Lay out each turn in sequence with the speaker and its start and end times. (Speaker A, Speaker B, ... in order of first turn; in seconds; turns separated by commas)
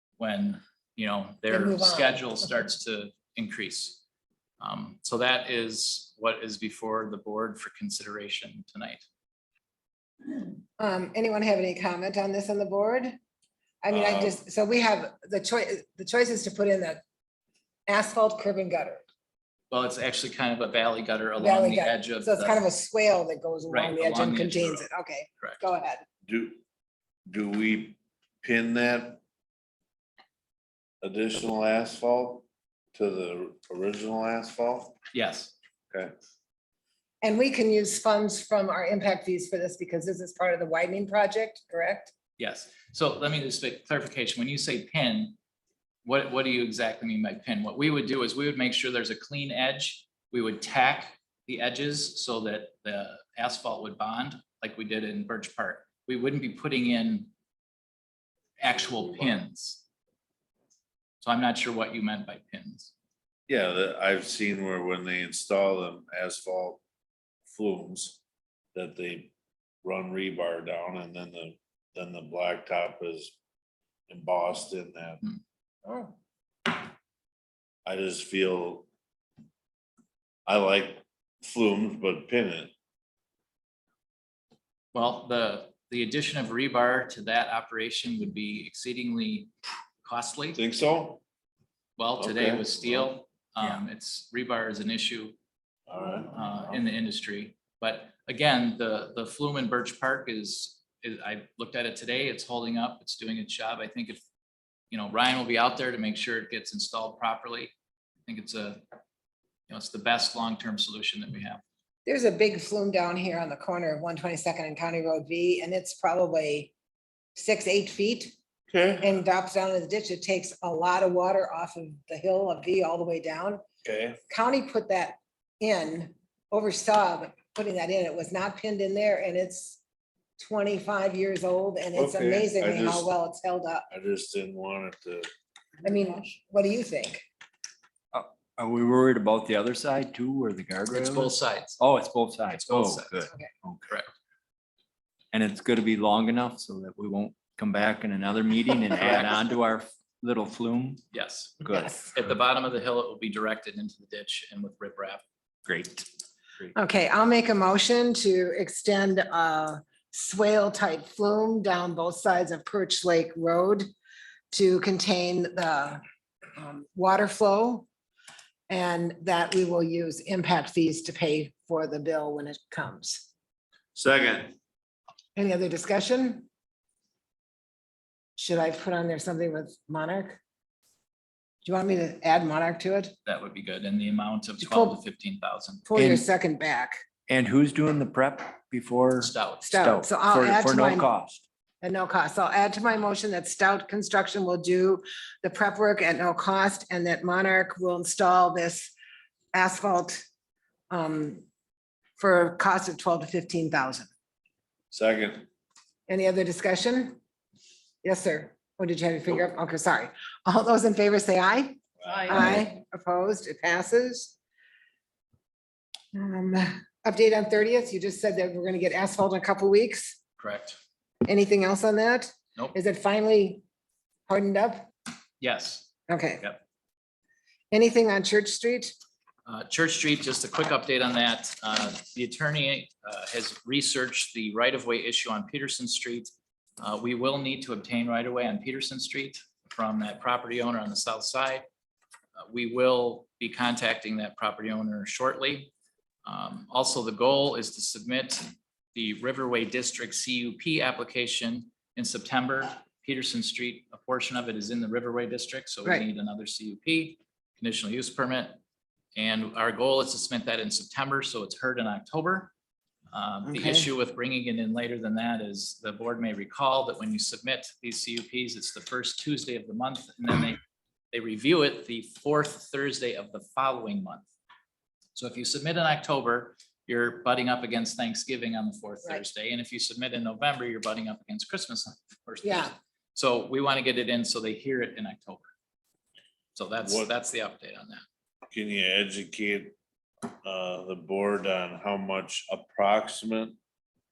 Speaker A: 0.2-4.0, Speaker B: 1.5-2.3, Speaker A: 4.6-9.0, Speaker B: 10.8-13.2, Speaker B: 13.8-17.0, Speaker C: 13.9-14.4, Speaker B: 17.9-19.0, Speaker A: 19.7-22.6, Speaker B: 21.4-26.0, Speaker A: 23.7-24.9, Speaker C: 26.2-26.6, Speaker C: 27.3-29.2, Speaker C: 31.0-35.0, Speaker A: 35.1-35.5, Speaker B: 37.2-42.1, Speaker A: 42.4-45.4, Speaker A: 46.0-57.3, Speaker A: 58.6-59.8, Speaker A: 61.2-62.9, Speaker C: 63.5-66.8, Speaker C: 67.5-68.2, Speaker C: 68.7-69.3, Speaker C: 69.8-73.4, Speaker C: 74.1-75.2, Speaker B: 75.8-76.1, Speaker C: 77.8-78.9, Speaker C: 80.5-82.7, Speaker A: 84.9-89.5, Speaker A: 90.0-90.6, Speaker C: 90.5-91.2, Speaker A: 92.0-95.3, Speaker C: 92.2-93.1, Speaker C: 95.9-96.7, Speaker A: 96.3-104.2, Speaker A: 104.9-107.7, Speaker A: 108.2-108.8, Speaker A: 109.7-111.6, Speaker B: 112.0-116.7, Speaker B: 117.3-118.3, Speaker C: 118.7-119.1, Speaker B: 119.0-123.6, Speaker C: 123.8-124.2, Speaker B: 124.3-129.8, Speaker B: 130.4-133.9, Speaker C: 131.9-133.1, Speaker C: 133.9-135.2, Speaker B: 135.8-137.2, Speaker D: 138.1-143.9, Speaker A: 140.9-141.8, Speaker A: 142.6-143.3, Speaker D: 145.3-151.0, Speaker A: 149.0-149.4, Speaker A: 151.1-155.2, Speaker D: 151.6-152.0, Speaker D: 155.7-156.1, Speaker B: 156.7-163.9, Speaker B: 164.5-166.0, Speaker B: 166.6-167.9, Speaker B: 168.7-173.3, Speaker C: 173.9-174.6, Speaker B: 175.3-176.5, Speaker B: 178.4-180.4, Speaker B: 181.6-183.1, Speaker A: 183.2-185.8, Speaker B: 184.6-185.0, Speaker B: 185.8-187.0, Speaker D: 185.9-186.2, Speaker D: 187.3-191.4, Speaker A: 189.2-189.7, Speaker B: 189.6-191.1, Speaker B: 191.8-198.9, Speaker B: 199.5-200.2, Speaker B: 200.9-201.4, Speaker B: 202.2-204.1, Speaker C: 204.9-205.5, Speaker B: 206.1-207.2, Speaker B: 208.0-214.3, Speaker C: 212.0-212.4, Speaker B: 216.1-220.2, Speaker A: 220.4-220.8, Speaker B: 221.2-223.6, Speaker B: 224.3-224.9, Speaker A: 225.4-225.9, Speaker B: 226.1-226.4, Speaker B: 227.7-228.9, Speaker A: 229.4-241.7, Speaker A: 242.4-245.7, Speaker A: 246.2-258.6, Speaker A: 259.1-262.5, Speaker A: 263.1-270.6, Speaker B: 263.5-263.9, Speaker A: 271.1-274.3, Speaker A: 275.1-285.5, Speaker B: 282.4-282.7, Speaker A: 286.5-288.0, Speaker C: 286.8-287.1, Speaker C: 288.5-289.8, Speaker C: 290.4-293.6